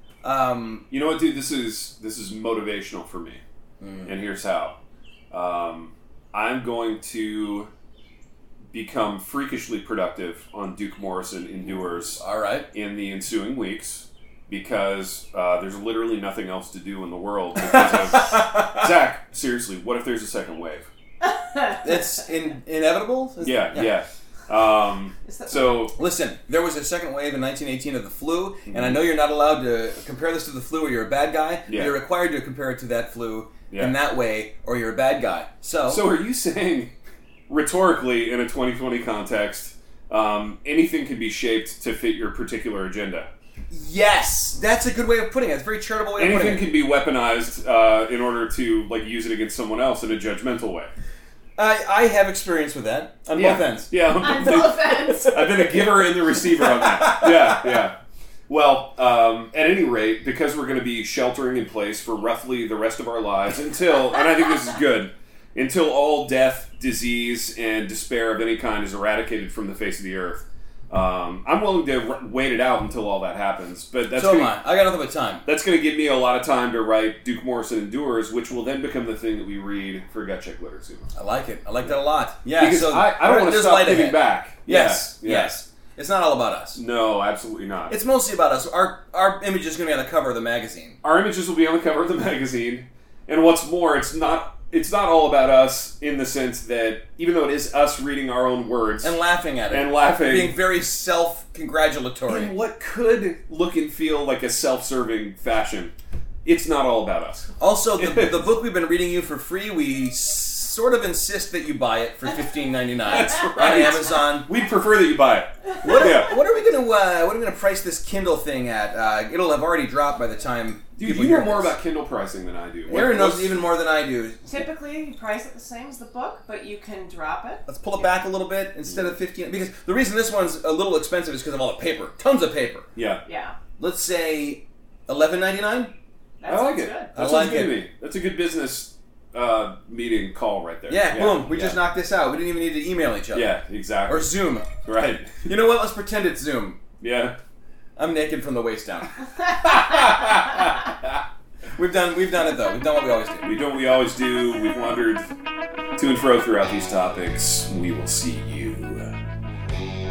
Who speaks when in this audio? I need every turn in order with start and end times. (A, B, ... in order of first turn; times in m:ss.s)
0:00.2-0:00.8 A
0:00.9-0:03.4 B
0:03.8-0:04.1 A
0:04.0-0:04.8 B
0:05.3-0:07.7 B
0:08.7-0:12.2 B
0:12.2-0:12.7 A
0:12.7-0:20.9 B
0:17.8-0:18.9 A
0:21.8-0:24.0 A
0:23.4-0:26.0 B
0:25.3-0:25.8 C
0:26.0-0:36.0 A
0:28.7-0:29.0 B
0:31.7-0:32.0 B
0:35.9-0:36.9 B
0:37.5-0:43.3 B
0:43.7-0:46.7 A
0:46.2-0:50.9 B
0:51.6-0:53.9 A
0:53.3-0:58.0 B
0:54.3-0:55.3 C
0:56.6-0:57.7 A
0:58.5-1:14.6 B
1:14.1-1:15.4 A
1:15.4-1:21.1 B
1:21.2-1:26.8 A
1:22.5-1:25.5 B
1:26.8-1:28.0 B
1:27.9-1:31.0 A
1:31.0-1:39.2 B
1:39.0-1:42.5 A
1:39.7-1:40.6 B
1:42.3-1:45.9 B
1:46.4-1:48.4 B
1:47.6-1:54.5 A
1:53.1-1:56.4 B
1:55.8-2:01.7 A
2:01.0-2:03.6 B
2:02.9-2:04.4 A
2:04.5-2:07.6 C
2:07.7-2:12.9 A
2:13.0-2:13.2 B
2:13.3-2:13.6 C
2:13.8-2:15.9 A
2:16.4-2:17.1 C
2:16.5-2:21.8 B
2:17.2-2:17.8 A
2:20.9-2:23.6 A
2:23.3-2:25.5 B
2:24.1-2:24.7 A
2:25.4-2:26.8 A
2:27.0-2:27.4 B
2:28.0-2:29.2 A
2:29.6-2:31.2 B
2:31.8-2:33.5 A
2:33.4-2:35.3 B
2:36.0-2:39.1 B